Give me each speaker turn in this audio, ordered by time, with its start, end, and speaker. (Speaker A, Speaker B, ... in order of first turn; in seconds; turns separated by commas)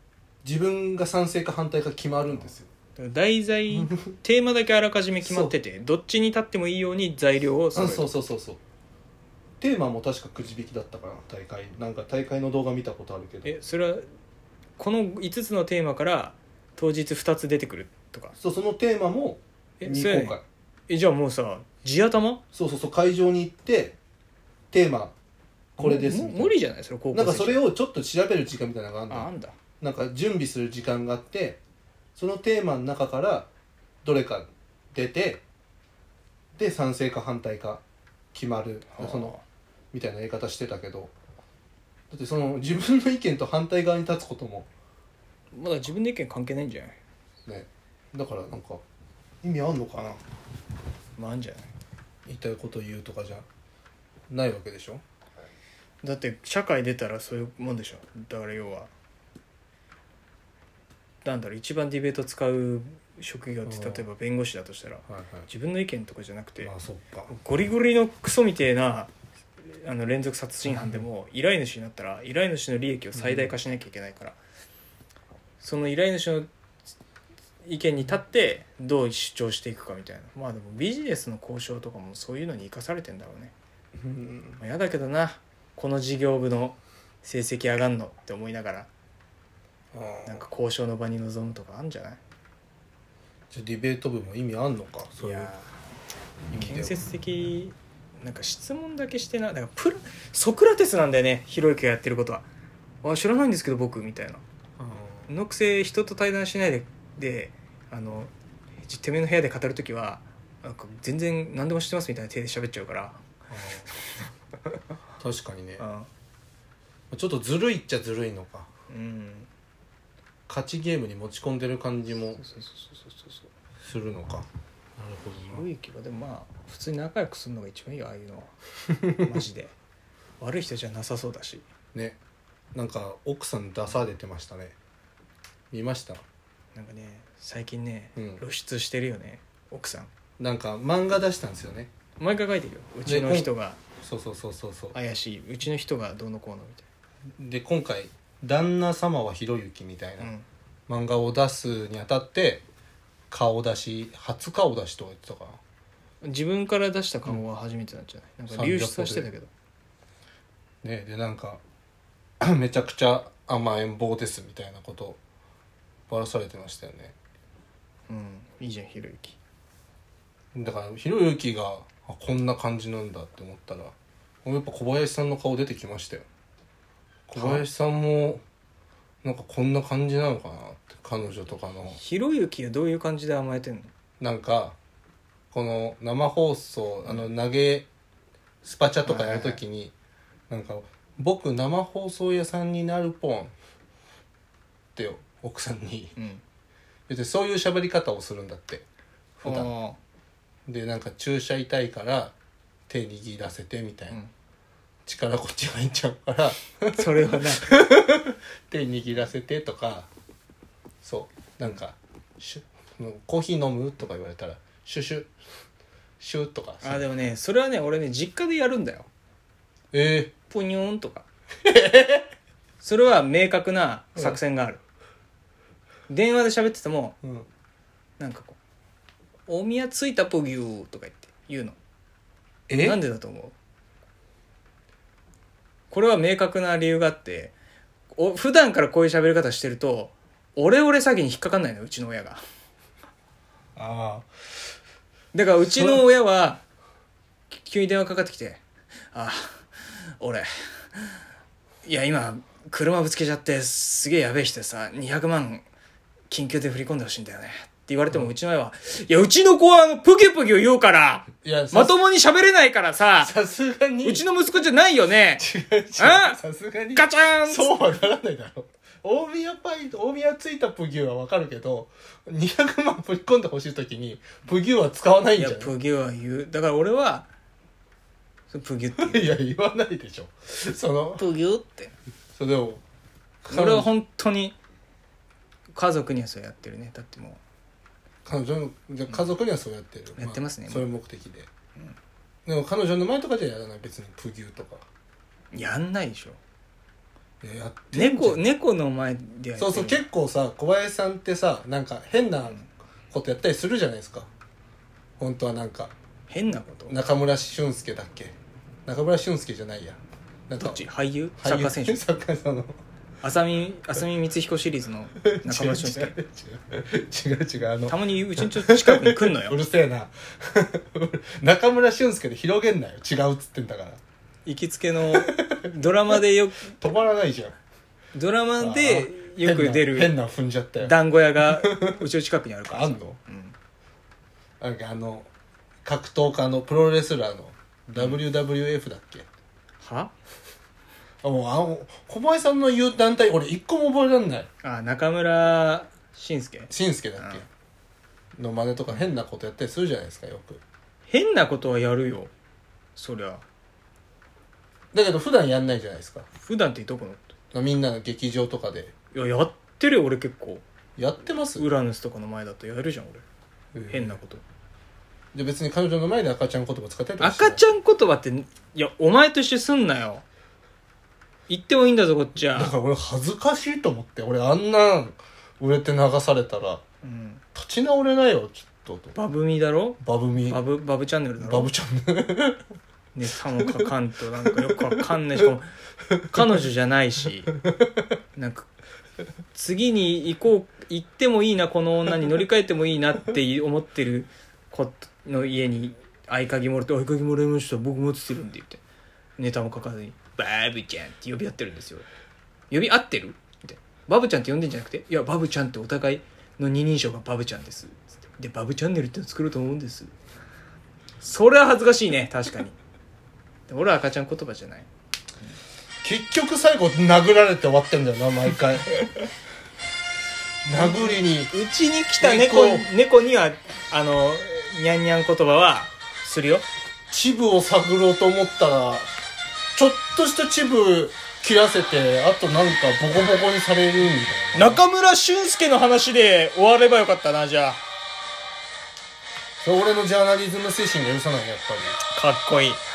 Speaker A: 0.4-2.7, Speaker B: 2.3-8.1, Speaker A: 3.7-4.1, Speaker A: 5.2-5.5, Speaker A: 7.8-8.6, Speaker A: 9.6-13.5, Speaker B: 13.4-14.1, Speaker B: 14.8-18.4, Speaker A: 18.4-20.4, Speaker B: 19.8-22.4, Speaker A: 22.5-24.0, Speaker A: 24.7-25.1, Speaker A: 25.8-26.5, Speaker B: 25.8-27.6, Speaker A: 27.1-31.6, Speaker B: 29.1-29.6, Speaker A: 32.2-33.5, Speaker A: 34.0-35.4, Speaker A: 36.6-37.8, Speaker A: 38.3-39.4, Speaker B: 38.9-39.4, Speaker A: 39.9-41.1, Speaker A: 42.1-44.7, Speaker B: 45.5-47.0, Speaker A: 47.5-48.8, Speaker A: 49.4-50.2, Speaker B: 51.2-51.7, Speaker A: 52.3-53.5, Speaker A: 54.3-55.0, Speaker B: 56.0-58.9, Speaker B: 61.2-66.7, Speaker A: 63.6-64.1, Speaker A: 65.1-65.5, Speaker A: 66.6-67.3, Speaker B: 67.3-74.4, Speaker A: 70.7-71.0, Speaker A: 73.2-73.5, Speaker B: 75.6-76.5, Speaker B: 77.6-83.5, Speaker A: 84.0-84.6, Speaker B: 84.6-88.9, Speaker A: 89.9-90.4, Speaker B: 90.3-92.2, Speaker A: 93.5-95.5, Speaker B: 95.2-95.7, Speaker A: 96.5-97.1, Speaker B: 96.6-102.5, Speaker B: 103.0-104.4, Speaker A: 104.8-105.3, Speaker B: 105.3-108.3, Speaker B: 108.8-113.2, Speaker A: 113.5-113.9, Speaker A: 115.2-115.9, Speaker B: 115.8-116.1, Speaker A: 117.1-118.7, Speaker B: 118.9-119.5, Speaker A: 120.5-122.4, Speaker B: 122.4-123.5, Speaker A: 123.8-125.7, Speaker B: 125.4-128.5, Speaker B: 129.2-129.8, Speaker B: 130.4-131.7, Speaker A: 132.7-134.8, Speaker A: 135.7-136.2, Speaker B: 136.8-140.1, Speaker A: 138.2-138.4, Speaker A: 140.4-141.9, Speaker B: 142.2-143.8, Speaker A: 143.1-143.5, Speaker A: 144.0-145.0, Speaker B: 144.9-146.8, Speaker A: 147.4-150.3, Speaker B: 150.2-150.5, Speaker A: 150.9-152.6, Speaker A: 153.3-155.6, Speaker B: 156.2-159.5, Speaker A: 158.5-159.3, Speaker A: 160.8-161.6, Speaker A: 162.4-165.2, Speaker A: 166.1-167.2, Speaker B: 168.1-169.4, Speaker A: 170.5-176.3, Speaker A: 177.3-178.4, Speaker B: 177.4-177.7, Speaker A: 179.2-182.0, Speaker B: 181.9-183.9, Speaker A: 184.2-184.8, Speaker A: 185.5-187.9, Speaker A: 188.6-189.9, Speaker B: 189.1-189.6, Speaker A: 190.5-193.5, Speaker A: 195.0-196.2, Speaker B: 196.2-196.4, Speaker A: 197.1-198.8, Speaker A: 199.4-199.7, Speaker B: 199.4-200.0, Speaker A: 200.7-202.3, Speaker A: 202.9-204.2, Speaker A: 205.1-210.1, Speaker B: 206.9-207.7, Speaker A: 211.0-215.3, Speaker A: 216.2-217.1, Speaker B: 216.8-219.1, Speaker A: 219.9-220.3, Speaker B: 220.5-221.3, Speaker A: 221.7-222.2, Speaker B: 222.8-224.8, Speaker B: 226.1-227.2, Speaker A: 227.2-227.5, Speaker B: 228.2-228.6, Speaker B: 229.5-231.8, Speaker A: 232.7-233.0, Speaker B: 232.8-233.5, Speaker B: 235.9-237.5, Speaker B: 238.1-242.4, Speaker A: 243.8-244.3, Speaker B: 245.3-246.6, Speaker A: 245.6-246.1, Speaker B: 247.5-251.2, Speaker B: 251.8-255.7, Speaker B: 256.3-263.3, Speaker A: 261.4-261.9, Speaker A: 263.2-264.2, Speaker B: 264.0-265.4, Speaker A: 265.4-275.7, Speaker B: 266.0-266.4, Speaker B: 266.9-267.7, Speaker B: 275.4-277.3, Speaker B: 278.5-279.4, Speaker A: 279.0-281.3, Speaker B: 281.2-281.9, Speaker A: 282.4-282.8, Speaker A: 283.4-283.9, Speaker B: 283.5-284.6, Speaker B: 285.7-287.4, Speaker A: 288.2-291.5, Speaker B: 290.2-290.9, Speaker A: 292.5-294.9, Speaker B: 295.5-296.4, Speaker A: 297.4-298.4, Speaker B: 297.9-300.1, Speaker A: 299.6-304.3, Speaker A: 305.2-305.9, Speaker B: 306.3-307.0, Speaker A: 306.9-308.4, Speaker A: 308.9-310.9, Speaker B: 310.6-312.0, Speaker A: 311.4-312.8, Speaker B: 313.2-316.2, Speaker A: 315.2-324.0, Speaker B: 317.9-319.6, Speaker B: 324.5-326.8, Speaker A: 325.1-325.6, Speaker A: 326.7-327.6, Speaker B: 328.1-330.1, Speaker A: 328.6-332.1, Speaker B: 330.8-333.6, Speaker A: 332.7-333.2, Speaker A: 334.6-335.3, Speaker A: 335.8-339.3, Speaker B: 339.8-340.1, Speaker A: 341.2-344.5, Speaker B: 344.6-347.4, Speaker A: 346.7-347.5, Speaker A: 348.4-350.6, Speaker B: 351.1-352.3, Speaker B: 353.0-353.4, Speaker A: 354.9-356.3, Speaker B: 356.4-357.3, Speaker A: 357.5-358.9, Speaker B: 359.1-360.6, Speaker A: 361.0-361.7, Speaker B: 361.6-363.2, Speaker A: 363.7-364.2, Speaker B: 363.9-364.4, Speaker A: 365.3-367.7, Speaker B: 367.2-370.2, Speaker B: 371.5-372.7, Speaker A: 372.5-376.8, Speaker B: 377.0-377.4, Speaker A: 377.5-379.2, Speaker B: 379.1-381.7, Speaker A: 380.0-380.6, Speaker A: 381.4-382.6, Speaker B: 383.1-385.7, Speaker A: 383.5-383.9, Speaker A: 384.5-385.1, Speaker B: 386.3-387.5, Speaker B: 388.4-388.7, Speaker B: 389.5-398.8, Speaker B: 399.4-402.1, Speaker B: 402.7-410.1, Speaker B: 411.2-412.8, Speaker B: 413.7-414.9, Speaker A: 416.0-419.1, Speaker A: 420.6-421.5, Speaker B: 420.7-426.7, Speaker A: 422.2-422.9, Speaker A: 427.1-429.1, Speaker A: 429.8-434.8, Speaker B: 434.5-437.8, Speaker A: 439.6-442.0, Speaker B: 442.1-442.8